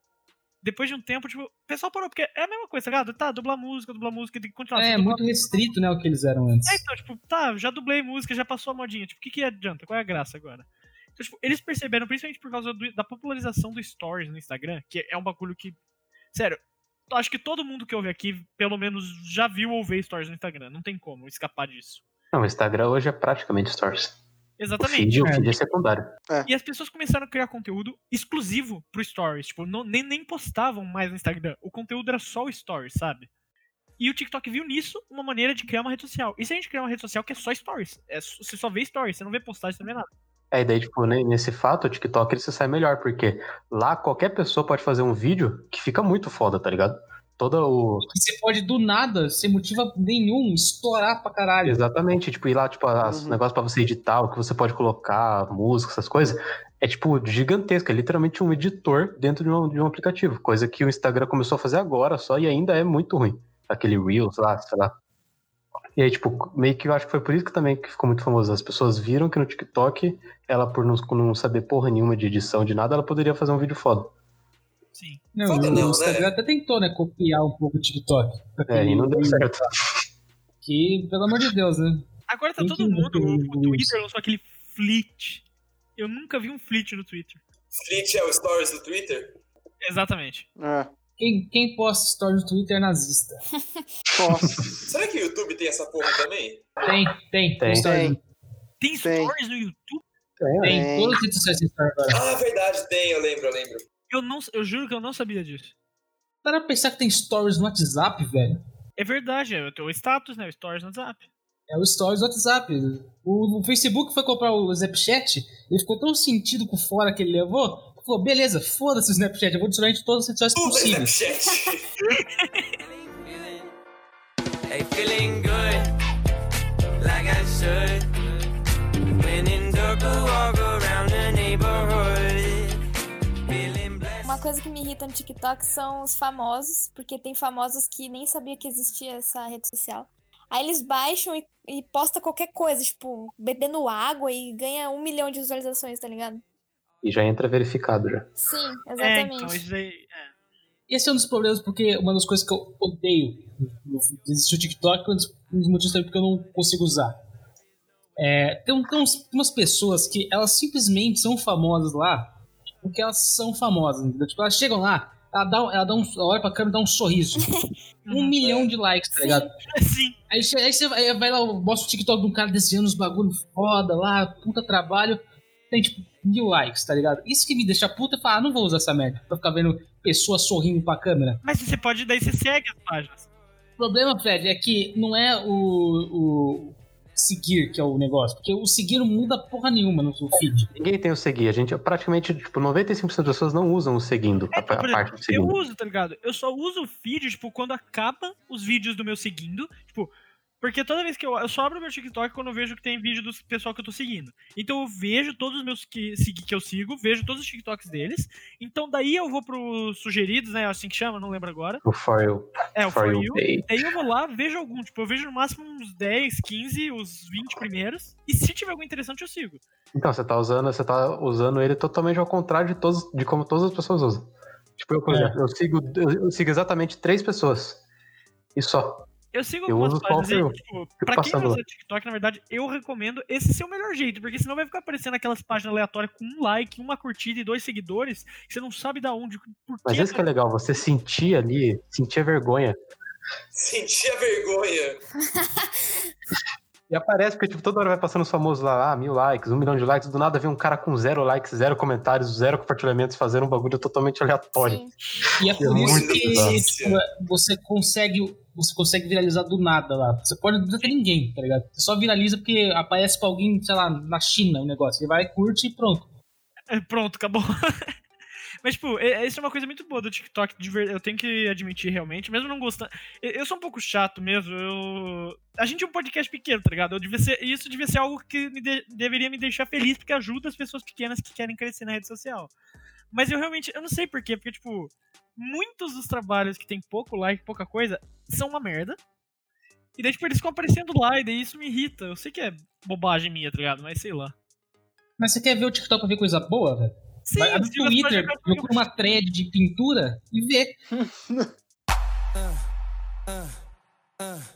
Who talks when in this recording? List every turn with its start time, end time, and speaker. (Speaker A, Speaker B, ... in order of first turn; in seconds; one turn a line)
Speaker A: 0.6-5.7
Speaker B: 4.8-6.8
Speaker A: 6.7-10.7
Speaker A: 11.2-15.8
Speaker A: 16.3-22.0
Speaker C: 22.3-24.2
Speaker A: 24.6-25.1
Speaker C: 24.8-26.1
Speaker B: 25.2-25.5
Speaker A: 26.5-33.3
Speaker A: 34.0-40.1
Speaker C: 40.5-48.1
Speaker B: 48.1-51.8
Speaker C: 51.6-64.9
Speaker D: 53.0-53.4
Speaker C: 66.0-74.1
Speaker A: 75.0-75.3
Speaker B: 75.3-79.5
Speaker E: 75.4-76.3
Speaker C: 78.7-79.9
Speaker B: 80.6-82.1
Speaker A: 82.3-85.4
Speaker B: 82.6-84.0
Speaker A: 86.0-87.4
Speaker E: 87.8-89.3
Speaker A: 89.8-90.5
Speaker D: 90.6-90.9
Speaker B: 91.2-93.4
Speaker F: 93.6-93.8
Speaker D: 94.1-94.8
Speaker E: 94.9-96.7
Speaker B: 96.8-98.2
Speaker C: 97.6-97.9
Speaker D: 97.8-98.2
Speaker A: 98.8-100.0
Speaker D: 99.0-99.3
Speaker C: 100.4-100.9
Speaker D: 100.6-101.2
Speaker B: 100.6-102.2
Speaker E: 102.1-103.8
Speaker A: 104.1-105.7
Speaker B: 106.4-108.6
Speaker A: 109.0-111.2
Speaker B: 111.7-121.2
Speaker E: 120.5-121.9
Speaker A: 122.1-122.7
Speaker G: 123.2-123.6
Speaker G: 124.7-125.9
Speaker G: 127.0-128.1
Speaker G: 129.1-132.8
Speaker G: 133.5-134.4
Speaker F: 134.2-146.4
Speaker C: 147.0-148.3
Speaker F: 148.4-149.6
Speaker A: 149.0-150.3
Speaker B: 150.9-157.2
Speaker B: 158.2-167.5
Speaker F: 167.4-167.7
Speaker A: 168.1-168.4
Speaker B: 168.1-169.5
Speaker E: 168.4-168.7
Speaker F: 169.2-169.4
Speaker A: 169.7-170.2
Speaker B: 170.3-181.4
Speaker A: 181.4-183.3
Speaker B: 183.8-190.7
Speaker C: 190.7-195.6
Speaker A: 194.5-211.8
Speaker C: 211.8-213.7
Speaker A: 212.8-219.6
Speaker C: 219.9-227.8
Speaker C: 228.6-229.1
Speaker A: 229.3-240.3
Speaker C: 229.7-231.6
Speaker C: 239.8-242.8
Speaker E: 243.5-245.0
Speaker F: 245.3-245.7
Speaker C: 246.9-254.8
Speaker F: 254.6-254.9
Speaker B: 255.4-266.1
Speaker C: 255.4-256.6
Speaker E: 255.6-257.0
Speaker A: 266.7-267.9
Speaker A: 268.6-282.5
Speaker A: 283.1-289.0
Speaker A: 290.0-294.3
Speaker B: 295.2-300.8
Speaker A: 297.3-298.8
Speaker D: 300.9-301.5